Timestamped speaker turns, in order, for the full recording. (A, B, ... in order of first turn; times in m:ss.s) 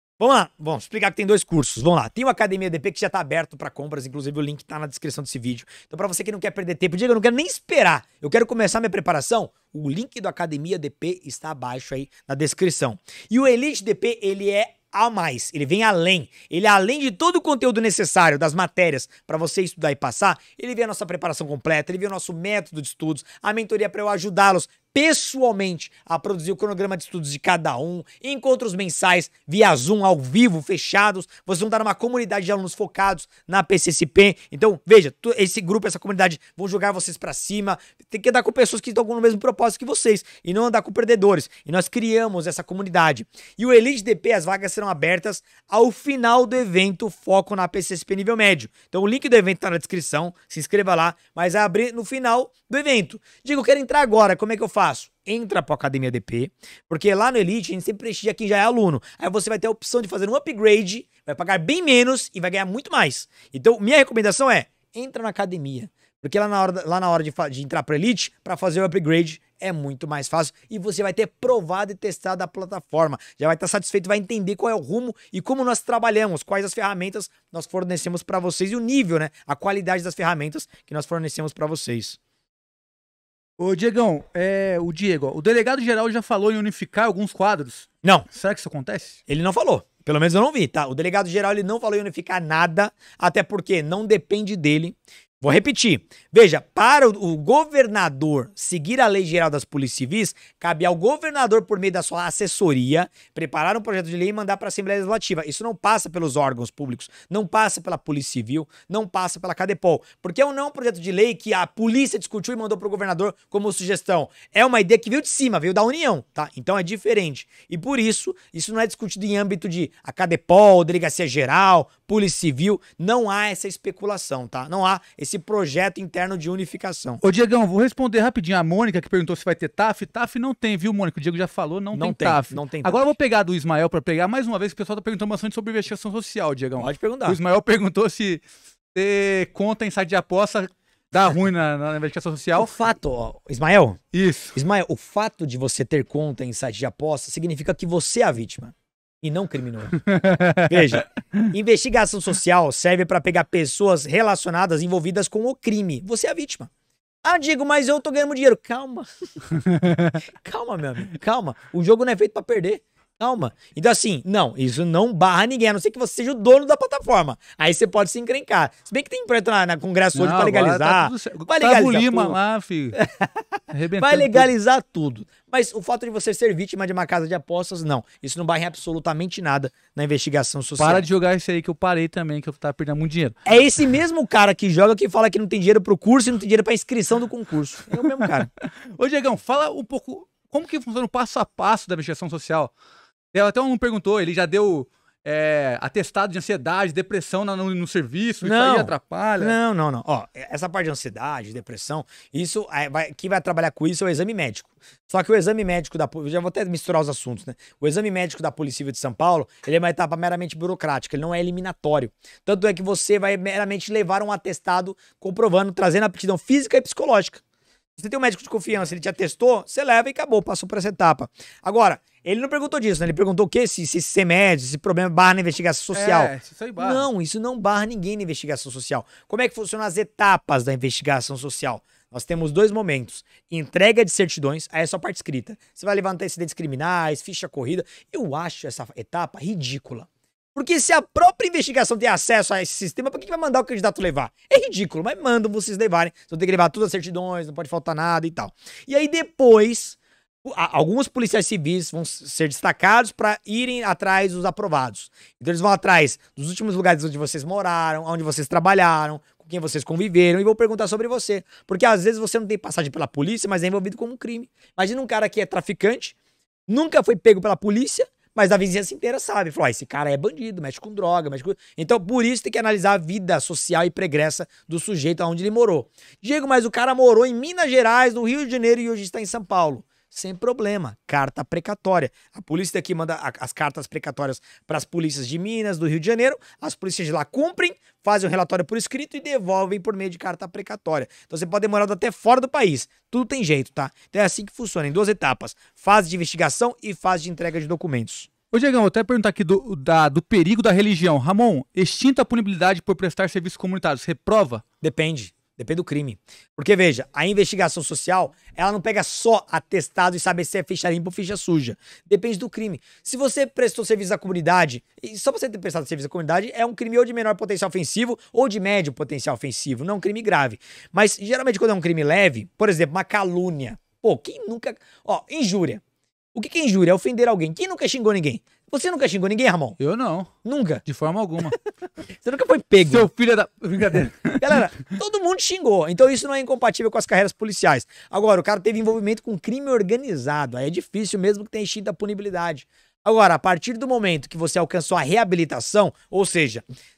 0:00.2-1:22.2 A
1:23.6-1:29.2 B
1:29.3-2:07.2 A
2:07.2-2:18.4 B
2:11.9-2:13.1 A
2:16.8-2:17.4 A
2:18.9-2:22.7 B
2:22.6-2:24.0 A
2:24.1-2:24.6 B
2:24.5-2:30.0 A
2:30.1-2:31.5 B
2:30.7-2:36.7 A
2:37.2-2:39.1 A
2:39.7-2:40.2 B
2:40.4-2:52.4 A
2:50.2-2:53.0 B
2:52.9-3:01.0 A
2:53.7-2:54.5 B
3:00.8-3:03.4 B
3:03.4-3:08.5 A
3:08.6-3:12.7 B
3:13.3-3:19.6 B
3:18.4-3:37.4 A
3:38.0-4:26.2 A
3:45.9-3:47.1 B
4:26.7-4:58.3 A
4:58.5-5:04.6 B
5:04.8-5:25.8 A
5:26.3-5:29.8 A
5:29.8-5:30.3 B
5:30.4-5:30.8 A
5:30.8-5:31.6 B
5:32.2-5:33.1 A
5:32.9-5:34.6 B
5:34.4-5:46.6 A